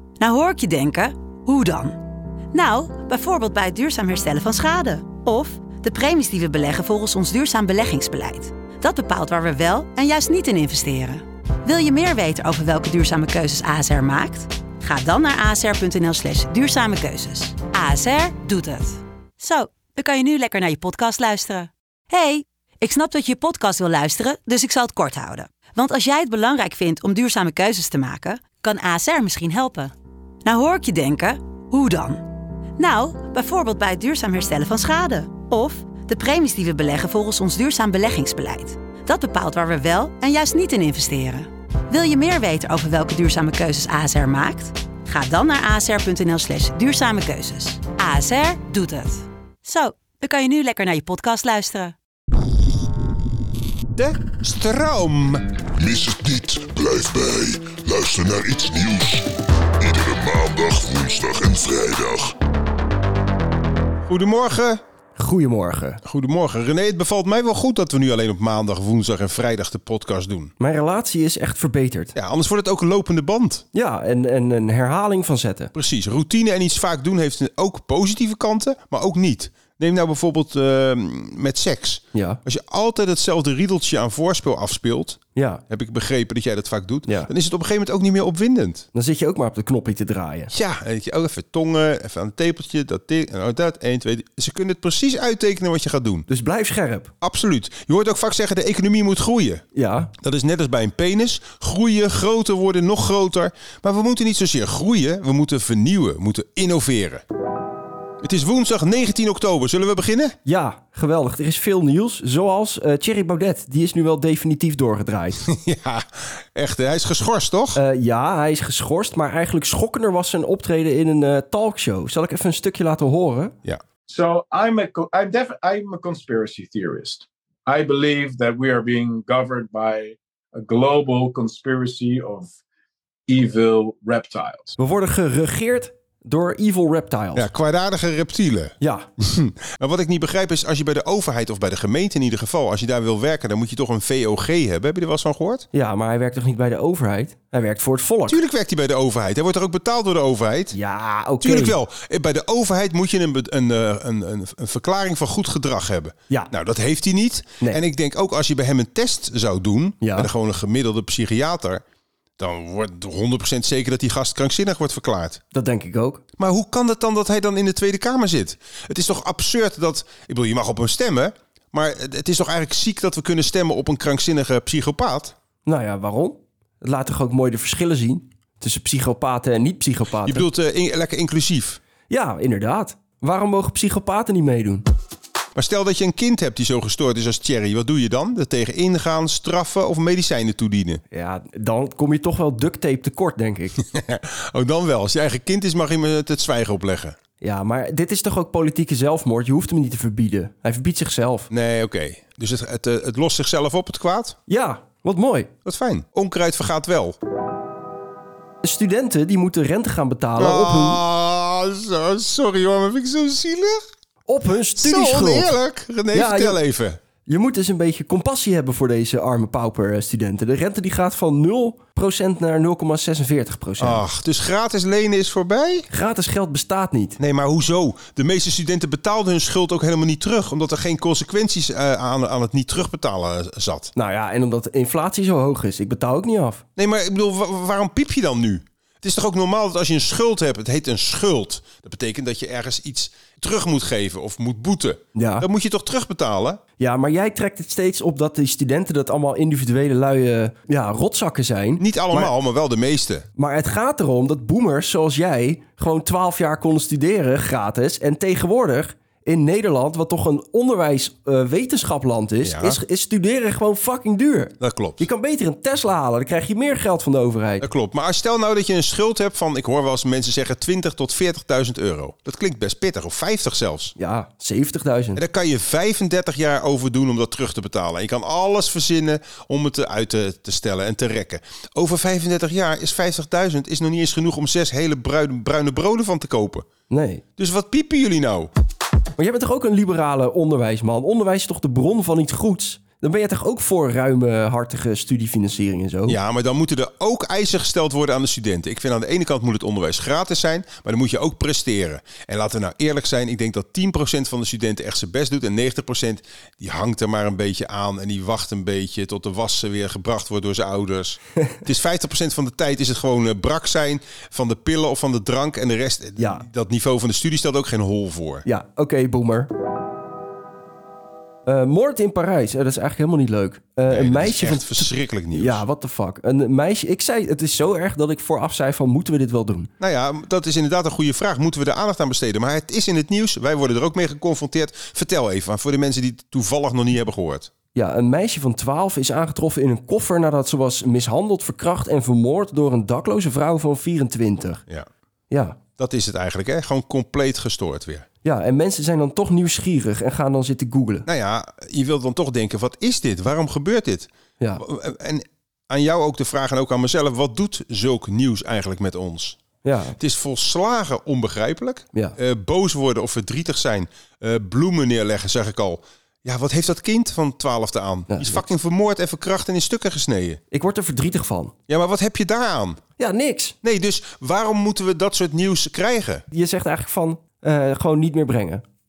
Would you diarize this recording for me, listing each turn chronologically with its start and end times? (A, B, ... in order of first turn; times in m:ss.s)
0:00.2-0:02.0 A
0:02.5-0:29.9 A
0:30.4-0:52.0 A
0:54.0-0:55.6 B
0:55.8-0:59.3 C
0:59.8-1:02.4 C
1:04.1-1:04.8 B
1:05.2-1:06.0 D
1:06.0-1:10.5 B
1:10.6-1:12.1 D
1:12.2-1:13.6 B
1:13.7-1:15.7 D
1:15.7-1:28.9 B
1:22.1-1:22.4 D
1:25.4-1:25.6 D
1:28.9-1:30.5 D
1:30.5-1:36.3 B
1:36.3-1:37.1 D
1:37.2-1:39.6 B
1:39.7-1:40.1 D
1:40.2-1:47.2 B
1:48.2-1:50.4 B
1:50.4-1:55.4 D
1:55.4-1:57.8 B
1:57.8-2:03.5 D
2:04.1-2:12.5 E
2:13.3-2:14.8 E
2:14.8-2:17.5 D
2:17.4-2:25.7 B
2:18.8-2:19.1 D
2:25.7-2:28.4 D
2:28.3-2:30.8 B
2:30.7-2:31.8 D
2:31.4-2:41.8 B
2:40.0-2:40.3 D
2:42.4-2:45.4 B
2:45.5-2:46.2 D
2:46.4-2:55.3 B
2:55.7-3:00.5 D
3:00.2-3:01.8 B
3:02.1-3:04.8 D
3:05.6-3:11.0 B
3:11.1-3:13.8 D
3:13.8-3:17.2 B
3:17.4-3:21.5 D
3:21.5-3:24.4 B
3:24.5-3:25.5 D
3:25.6-3:27.2 B
3:28.6-3:31.0 D
3:30.4-3:33.8 B
3:34.3-3:35.5 D
3:34.8-3:37.0 B
3:36.1-3:36.6 D
3:37.2-3:44.0 D
3:43.8-3:45.9 B
3:45.9-3:47.2 D
3:47.2-3:53.9 B
3:54.0-3:56.6 D
3:56.8-4:06.6 B
4:05.2-4:05.5 D
4:06.8-4:12.3 D
4:11.8-4:13.3 B
4:13.4-4:27.7 D
4:22.4-4:22.8 B
4:24.6-4:25.1 B
4:27.6-4:34.0 B
4:34.0-4:35.2 D
4:35.2-4:46.6 B
4:46.9-4:47.2 D
4:47.4-4:48.5 B
4:49.2-4:56.2 D
4:56.1-5:18.5 B
5:16.2-5:16.5 D
5:18.4-5:19.5 D
5:21.5-5:29.7 D
5:23.9-5:25.6 B
5:29.8-5:37.5 B
5:37.7-5:44.6 D
5:45.3-5:45.6 D
5:45.8-5:48.0 B
5:48.2-5:51.1 D
5:51.1-5:59.4 B
5:59.6-6:00.0 D
6:00.0-6:10.4 B
6:08.1-6:08.5 D
6:10.5-6:11.5 D
6:11.7-6:12.8 B
6:13.0-6:13.6 D
6:13.6-6:16.2 B
6:16.3-6:18.6 D